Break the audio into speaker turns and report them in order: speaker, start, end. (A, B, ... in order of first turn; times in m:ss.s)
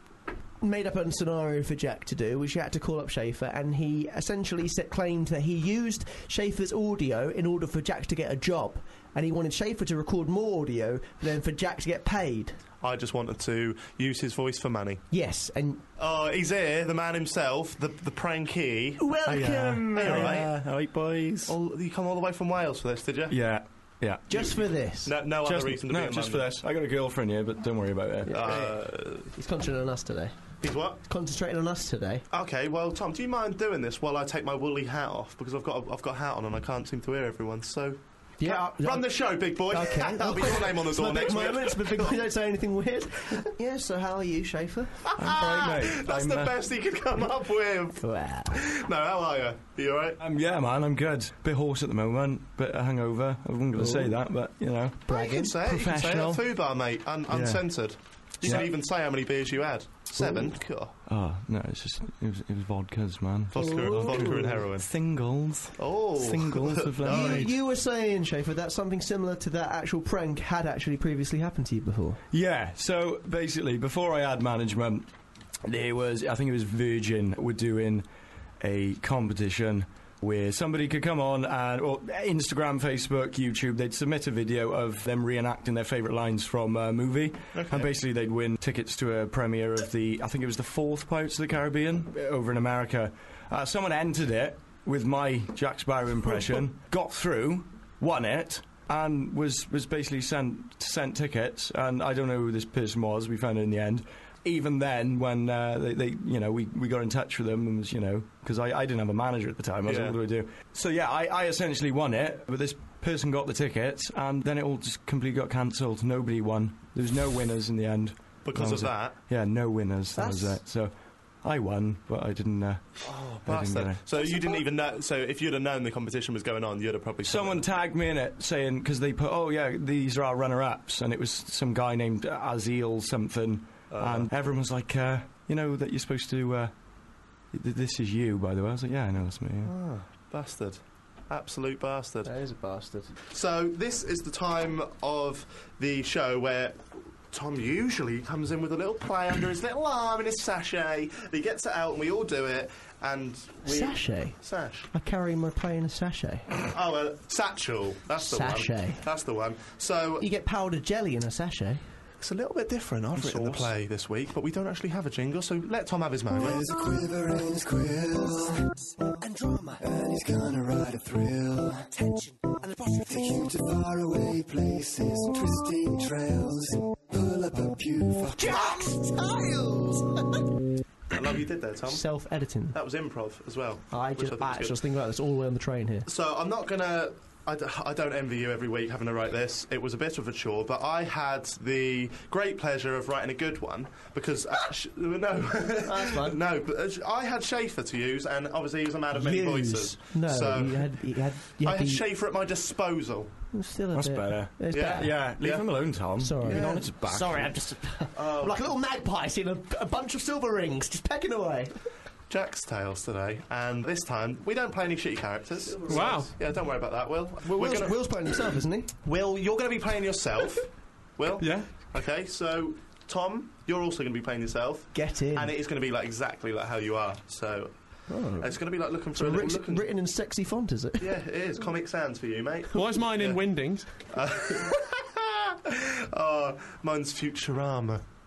0:00.6-0:12.6 A
0:12.8-0:15.0 B
0:15.1-0:15.8 A
0:16.0-0:20.5 B
0:19.0-0:20.5 A
0:19.3-0:21.5 C
0:21.5-0:23.4 B
0:23.3-0:24.4 C
0:24.3-0:25.2 A
0:24.3-0:26.6 B
0:25.4-0:28.4 C
0:28.3-0:30.4 A
0:28.3-0:29.3 B
0:30.6-0:31.0 B
0:31.0-0:32.2 A
0:32.3-0:42.2 B
0:38.4-0:45.5 A
0:45.1-0:50.2 B
0:45.2-0:46.6 C
0:48.0-0:48.6 A
0:50.2-0:55.1 C
0:53.8-0:54.2 A
0:55.1-0:55.6 A
0:55.1-1:00.9 B
0:55.6-0:56.4 C
0:57.3-0:57.7 C
1:00.2-1:00.6 A
1:01.1-1:07.5 C
1:03.5-1:04.9 B
1:03.6-1:04.7 A
1:05.8-1:07.5 B
1:07.0-1:12.2 A
1:12.3-1:15.1 C
1:15.6-1:18.1 C
1:18.6-2:02.9 C
1:27.5-1:27.9 B
1:49.9-1:50.2 B
1:58.4-1:59.2 B
2:00.2-2:00.6 A
2:03.0-2:07.6 B
2:03.4-2:04.0 C
2:04.2-2:04.6 A
2:07.3-2:16.7 C
2:13.9-2:14.3 B
2:17.5-2:19.7 C
2:19.6-2:22.3 B
2:22.2-2:23.2 A
2:23.3-2:26.8 B
2:27.3-2:34.9 B
2:33.6-2:34.4 A
2:34.9-2:36.5 A
2:36.6-2:40.2 B
2:38.2-2:39.0 A
2:40.2-2:41.8 A
2:42.2-2:46.6 B
2:43.2-2:43.5 C
2:46.3-2:48.9 D
2:49.2-2:49.8 A
2:49.8-2:58.7 D
2:58.4-3:00.5 A
3:01.1-3:02.0 B
3:01.9-3:02.8 A
3:02.7-3:04.8 B
3:03.9-3:06.1 A
3:06.1-3:21.0 B
3:15.8-3:16.4 A
3:19.1-3:22.0 A
3:21.6-3:23.3 B
3:23.5-3:25.2 A
3:23.9-3:27.5 C
3:24.7-3:25.7 B
3:26.2-3:31.8 A
3:26.4-3:26.9 B
3:28.2-3:28.6 B
3:32.3-3:38.0 B
3:35.6-3:36.3 A
3:35.9-3:36.3 E
3:37.4-3:38.9 A
3:39.0-3:47.7 B
3:41.4-3:41.7 E
3:44.9-3:45.5 A
3:48.1-3:48.6 A
3:48.4-3:49.9 B
3:49.2-3:51.2 A
3:51.0-3:53.4 B
3:52.7-3:53.9 E
3:54.1-3:58.0 B